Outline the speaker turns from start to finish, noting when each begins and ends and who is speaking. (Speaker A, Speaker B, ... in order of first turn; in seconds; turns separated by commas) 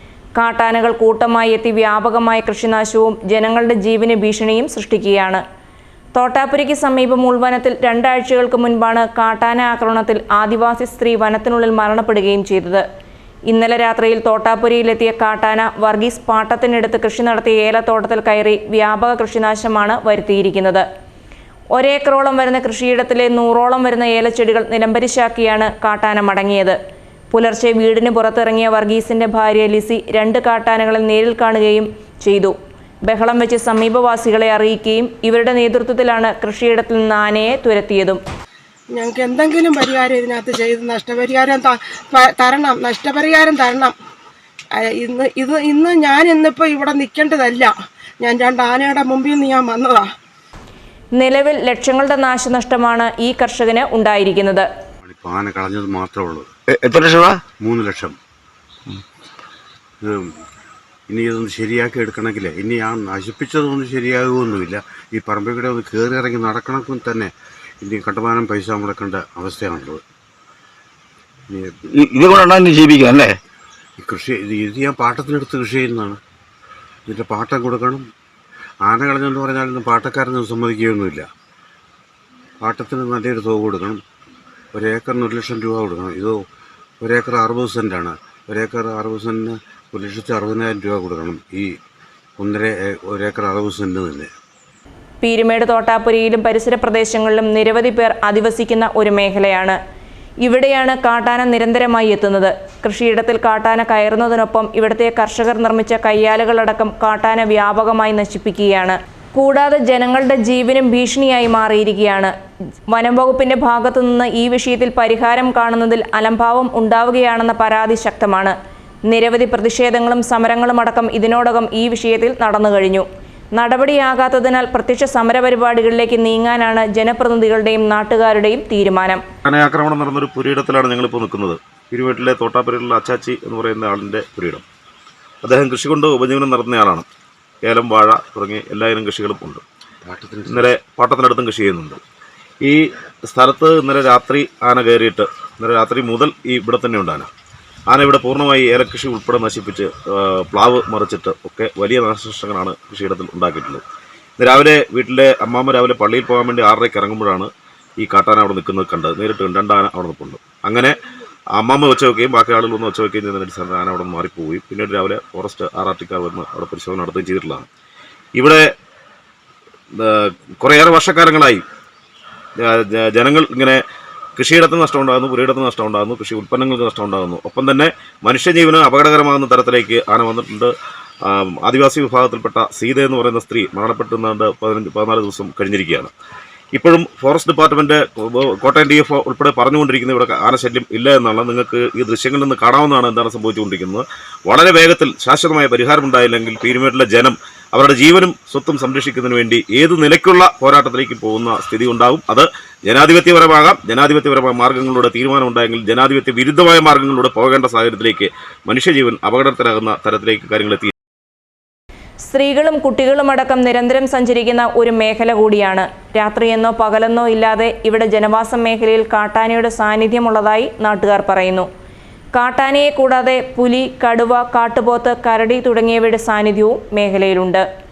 Speaker A: 0.4-5.4, Speaker A: 6.2-12.8, Speaker A: 13.5-20.8, Speaker A: 21.7-26.8, Speaker A: 27.3-38.2, Speaker B: 38.9-44.0, Speaker B: 44.7-50.1, Speaker A: 51.1-54.7, Speaker C: 55.0-56.5, Speaker D: 56.7-57.4, Speaker C: 57.6-58.1, Speaker C: 60.0-60.3, Speaker C: 61.1-67.3, Speaker C: 67.8-70.0, Speaker D: 71.9-73.4, Speaker C: 74.0-76.2, Speaker C: 77.1-78.0, Speaker C: 78.8-81.2, Speaker C: 82.6-84.0, Speaker C: 84.7-86.4, Speaker C: 87.0-91.7, Speaker C: 92.4-94.3, Speaker A: 95.2-99.8, Speaker A: 100.4-112.3, Speaker A: 112.9-118.5, Speaker A: 119.1-129.2, Speaker E: 129.4-134.7, Speaker E: 135.4-137.1, Speaker E: 137.7-139.6, Speaker C: 140.0-140.7, Speaker E: 140.5-142.0, Speaker E: 142.6-147.3, Speaker E: 147.9-153.8, Speaker E: 154.4-161.0, Speaker E: 161.6-167.7, Speaker E: 168.3-168.7, Speaker E: 170.0-171.6, Speaker E: 172.6-173.8, Speaker E: 174.4-180.7, Speaker E: 181.2-186.1, Speaker E: 186.7-210.9, Speaker A: 212.2-221.7, Speaker A: 222.3-227.7